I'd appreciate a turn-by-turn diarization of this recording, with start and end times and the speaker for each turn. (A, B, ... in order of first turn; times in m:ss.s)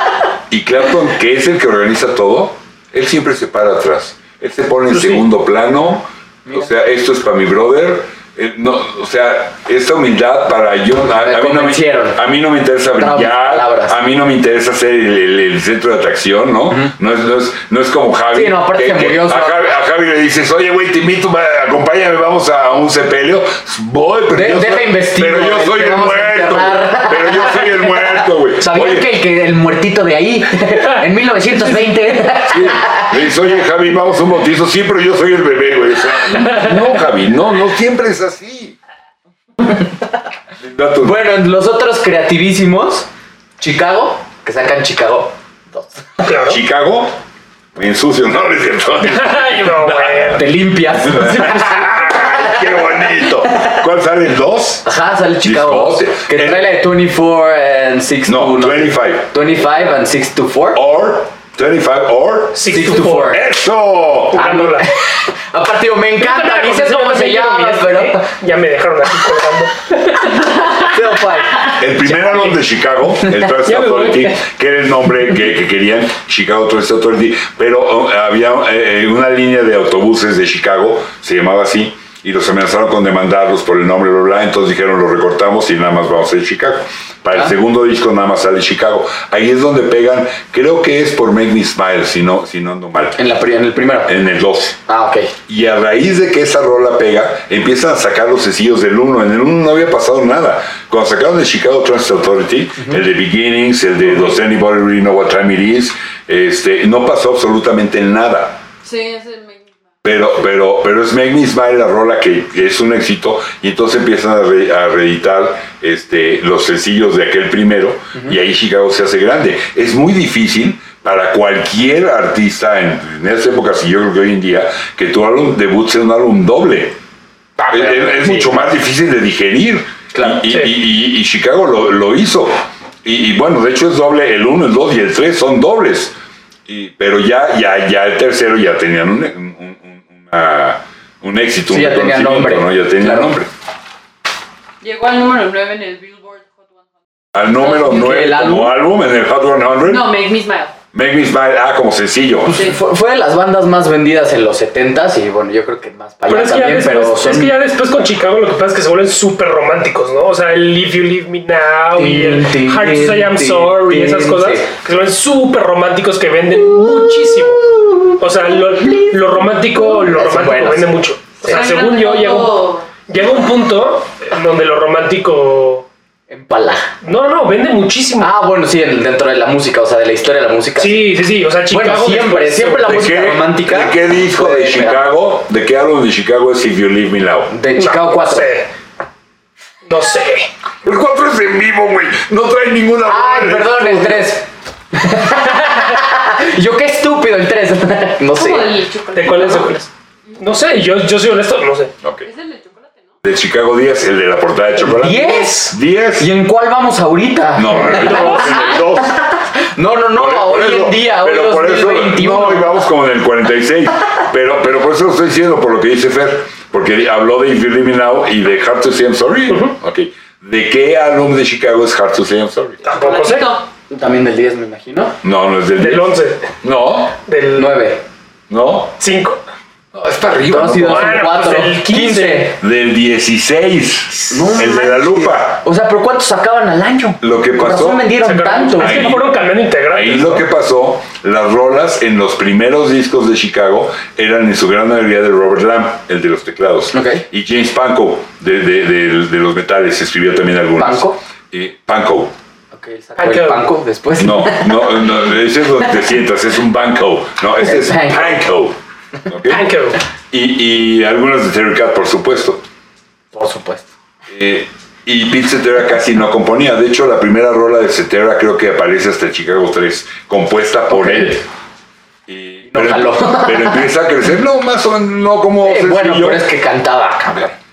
0:00.5-0:29.1 A
0:04.9-0:05.2 B
0:11.2-0:12.2 C
0:13.0-0:14.0 C
0:18.3-0:19.7 C
0:24.3-0:33.2 C
0:32.5-0:38.8 A
0:39.6-0:39.9 C
0:40.6-0:41.3 A
0:41.0-0:43.1 C
0:43.6-0:46.2 C
0:46.2-0:46.6 B
0:46.4-0:47.2 A
0:47.7-0:50.4 A
0:49.0-0:50.4 B
0:50.3-0:52.5 C
0:50.9-0:54.8 A
0:54.8-1:00.8 C
0:55.4-0:56.7 A
0:58.2-0:59.3 A
1:00.7-1:04.6 A
1:02.5-1:03.4 B
1:02.7-1:03.4 C
1:04.3-1:04.9 B
1:04.4-1:08.3 C
1:06.2-1:10.7 B
1:10.6-1:12.6 C
1:11.7-1:33.2 A
1:13.6-1:14.4 B
1:33.2-1:34.2 C
1:34.1-1:34.8 A
1:34.8-1:35.3 C
1:35.5-1:48.6 A
1:48.8-1:49.7 D
1:50.0-2:07.0 A
2:07.6-2:08.6 C
2:07.7-2:16.1 A
2:10.1-2:10.5 C
2:16.7-2:23.5 A
2:21.7-2:23.4 C
2:24.8-2:26.9 D
2:27.3-2:30.1 A
2:27.6-2:28.1 D
2:27.8-2:28.8 C
2:29.8-2:30.8 D
2:30.9-2:32.6 A
2:32.4-2:37.5 C
2:32.5-2:32.8 D
2:36.3-2:55.8 B
2:41.9-2:44.7 C
2:49.8-2:50.9 C
2:51.4-2:52.9 D
2:56.3-2:56.9 C
2:57.0-2:58.3 B
2:58.2-3:01.1 C
3:00.8-3:03.0 B
3:01.7-3:05.0 C
3:02.8-3:07.5 A
3:07.5-3:08.5 C
3:07.8-3:08.7 B
3:09.8-3:10.5 B
3:10.8-3:14.3 A
3:13.0-3:18.8 C
3:18.3-3:19.8 D
3:19.1-3:21.9 B
3:22.0-3:22.3 A
3:22.2-3:23.1 D
3:23.2-3:26.3 A
3:24.8-3:32.9 C
3:27.5-3:29.2 A
3:28.0-3:28.8 D
3:30.1-3:42.8 A
3:39.5-3:39.7 B
3:42.8-3:43.5 B
3:42.9-3:43.6 D
3:43.9-3:45.2 C
3:45.2-3:47.2 A
3:45.8-3:46.4 B
3:47.2-3:47.8 B
3:47.6-3:48.0 C
3:48.5-3:49.0 A
3:49.0-3:49.4 B
3:49.9-3:51.3 A
3:50.4-3:52.6 C
3:50.8-3:52.5 B
3:52.6-3:55.6 A
3:54.3-3:59.2 C
3:57.2-3:58.0 A
3:58.2-4:00.4 B
3:58.8-3:59.3 A
3:59.9-4:12.3 A
4:06.9-4:07.2 C
4:10.8-4:11.2 C
4:12.7-4:15.2 C
4:13.2-4:13.7 B
4:14.2-4:19.6 A
4:17.6-4:18.4 C
4:19.5-4:20.0 B
4:20.3-4:22.6 A
4:23.3-4:23.9 C
4:24.3-4:31.4 A
4:30.9-4:31.4 C
4:32.3-4:36.4 A
4:32.6-4:33.8 C
4:35.6-4:37.5 C